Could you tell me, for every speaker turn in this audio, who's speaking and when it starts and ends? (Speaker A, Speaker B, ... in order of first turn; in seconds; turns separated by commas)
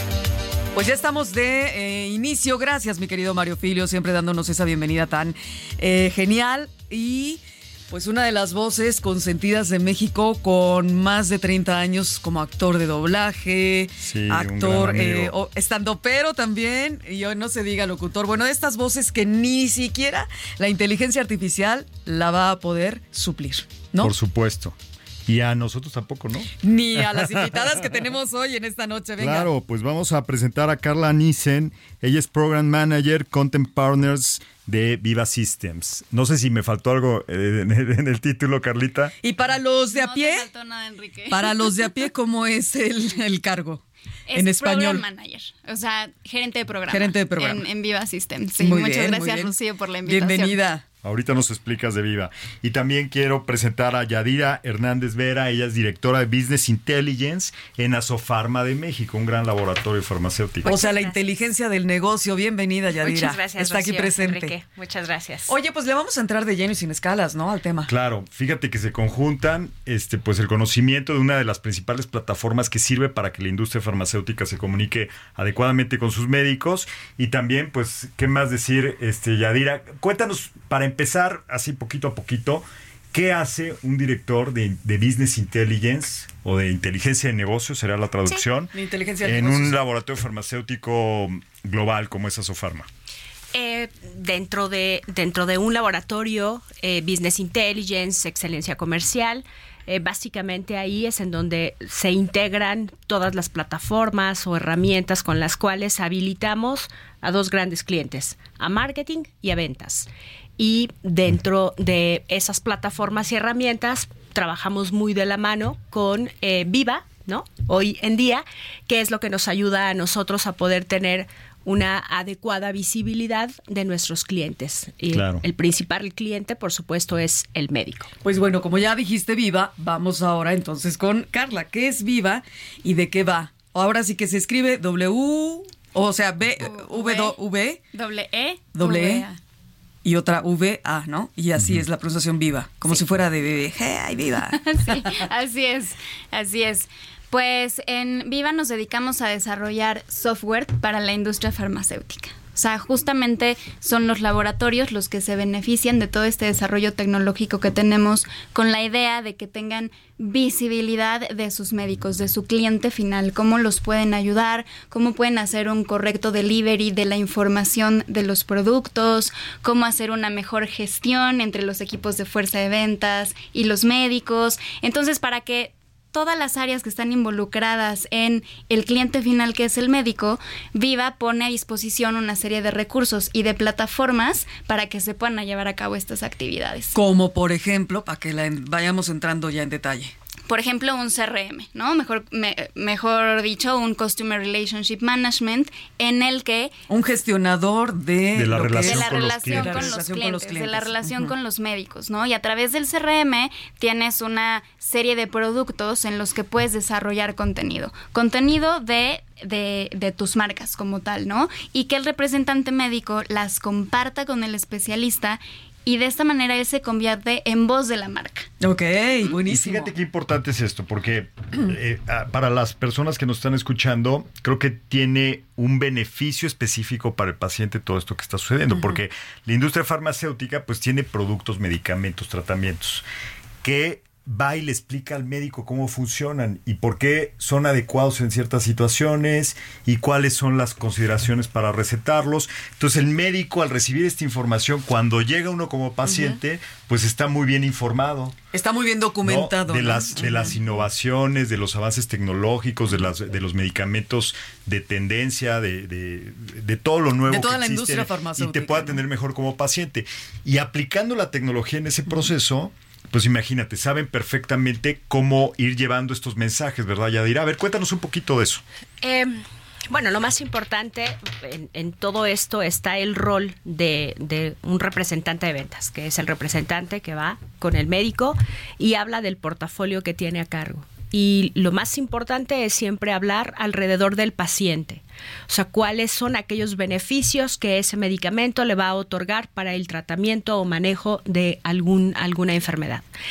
Speaker A: 0.7-24.1, Speaker B: 14.0-15.3, Speaker B: 24.0-27.7, Speaker A: 26.6-29.5, Speaker B: 29.2-39.1, Speaker A: 39.2-40.5, Speaker C: 39.9-41.8, Speaker A: 41.3-45.0, Speaker C: 44.3-50.6, Speaker A: 46.9-47.6, Speaker A: 48.6-49.5, Speaker A: 50.0-50.8, Speaker B: 51.0-60.7, Speaker D: 60.6-61.2, Speaker A: 60.6-64.5, Speaker D: 63.0-65.5, Speaker A: 65.5-67.9, Speaker B: 67.9-88.7, Speaker A: 88.7-89.7, Speaker B: 89.2-92.9, Speaker D: 93.5-128.1, Speaker B: 125.1-125.4, Speaker A: 128.2-137.8, Speaker C: 136.6-137.3, Speaker C: 137.9-139.4, Speaker A: 138.7-139.2, Speaker A: 140.0-145.0, Speaker B: 141.6-141.8, Speaker C: 144.6-186.9, Speaker A: 186.9-190.1, Speaker C: 190.5-196.7, Speaker A: 196.9-201.3, Speaker B: 198.3-199.9, Speaker C: 198.8-218.5, Speaker A: 218.6-219.9, Speaker B: 219.5-233.0, Speaker B: 233.6-248.3, Speaker A: 246.0-246.4, Speaker A: 248.5-250.8, Speaker B: 249.2-268.6, Speaker A: 257.3-259.0, Speaker D: 269.0-293.1